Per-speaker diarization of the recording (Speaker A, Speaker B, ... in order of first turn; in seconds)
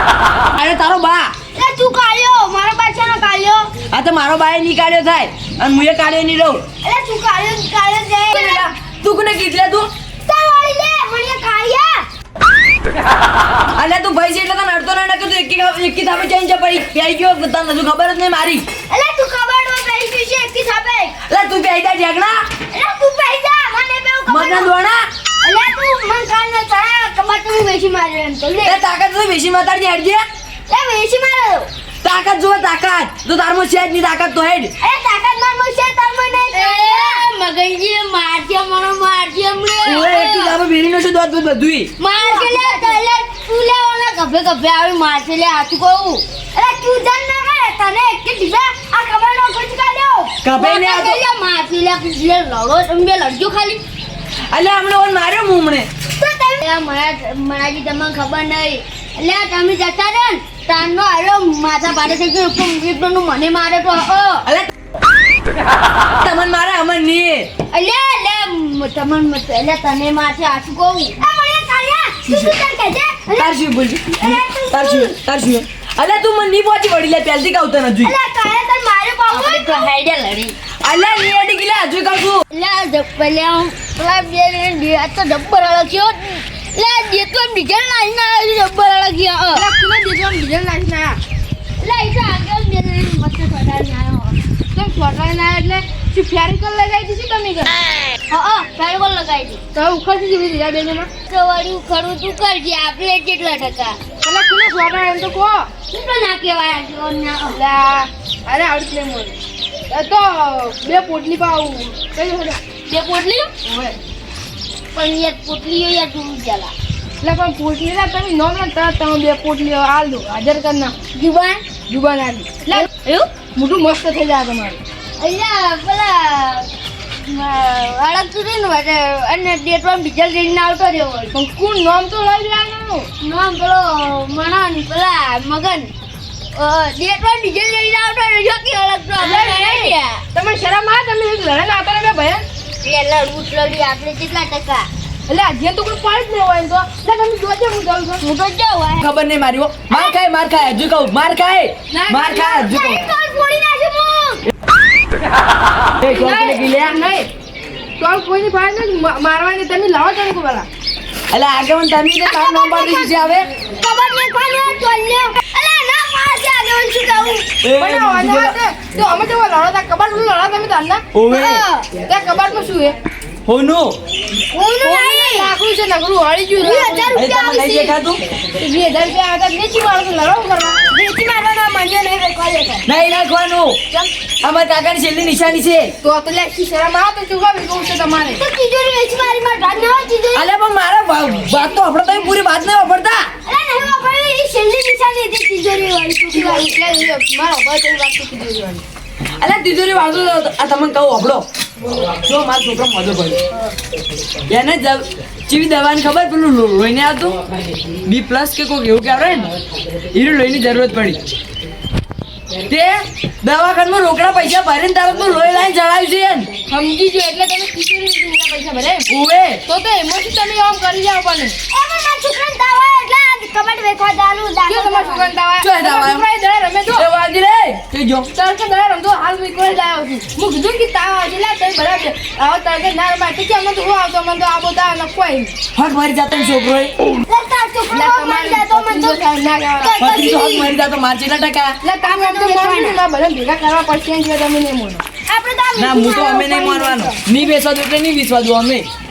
Speaker A: 0.5-1.3, 3.9-6.6, 8.3-9.9, 13.8-18.6, 21.3-22.4, 24.3-25.1, 28.6-30.2, 32.0-34.7, 39.9-41.9, 50.4-51.2, 54.5-55.9, 66.2-67.5, 72.3-72.5, 73.3-78.1, 80.8-82.4, 149.0-153.1, 156.0-157.0, 161.3-163.5, 167.6-168.6, 171.1-171.7, 173.5-174.0, 177.1-178.2, 182.9-183.8, 184.4-185.9, 190.3-193.2, 199.4-201.4, 202.2-203.4, 204.5-207.4, 208.1-209.5, 210.1-211.2, 212.7-216.5, 219.1-219.6, 225.6-226.3, 226.9-228.3, 235.8-236.9, 240.0-241.8, 245.8-248.9
Speaker B: 1.6-3.7, 6.8-8.6, 10.2-12.1, 18.9-21.1, 22.7-24.7, 25.4-28.8, 30.7-31.7, 34.8-37.2, 42.1-43.0, 46.5-50.4, 56.2-56.6, 71.2-73.5, 74.2-75.1, 78.0-79.9, 153.4-154.4, 162.6-163.1, 163.7-167.5, 171.3-171.9, 174.5-175.5, 176.6-177.9, 180.9-182.9, 188.4-190.5, 193.4-196.7, 221.7-225.3, 237.3-239.2, 239.8-240.7, 242.1-243.0, 245.3-247.2
Speaker C: 36.5-40.6, 42.0-46.2, 50.5-53.8, 56.6-64.5, 67.7-71.2, 79.3-80.6, 82.5-89.7, 91.8-94.4, 98.3-99.6, 101.3-104.0, 105.9-107.6, 112.9-113.5, 114.9-116.7, 121.1-121.6, 122.7-123.3, 125.2-126.7, 127.2-131.4, 133.2-135.9, 136.5-140.2, 142.8-144.9, 148.2-149.0, 152.7-153.1
Speaker D: 89.5-91.2, 94.7-97.7, 99.8-101.1, 104.2-105.7, 107.5-109.3, 109.9-112.6, 113.7-114.0, 117.2-121.0, 121.9-122.9, 123.6-124.8, 131.3-133.1, 139.2-142.4, 145.3-148.2, 151.9-152.6, 156.2-157.3, 158.0-160.7, 167.7-171.0, 172.1-173.0, 174.8-177.2, 178.6-180.8, 186.0-188.4, 196.3-198.8, 216.7-219.1, 219.7-221.6, 224.7-227.1, 228.3-235.5, 237.9-240.0, 241.8-245.0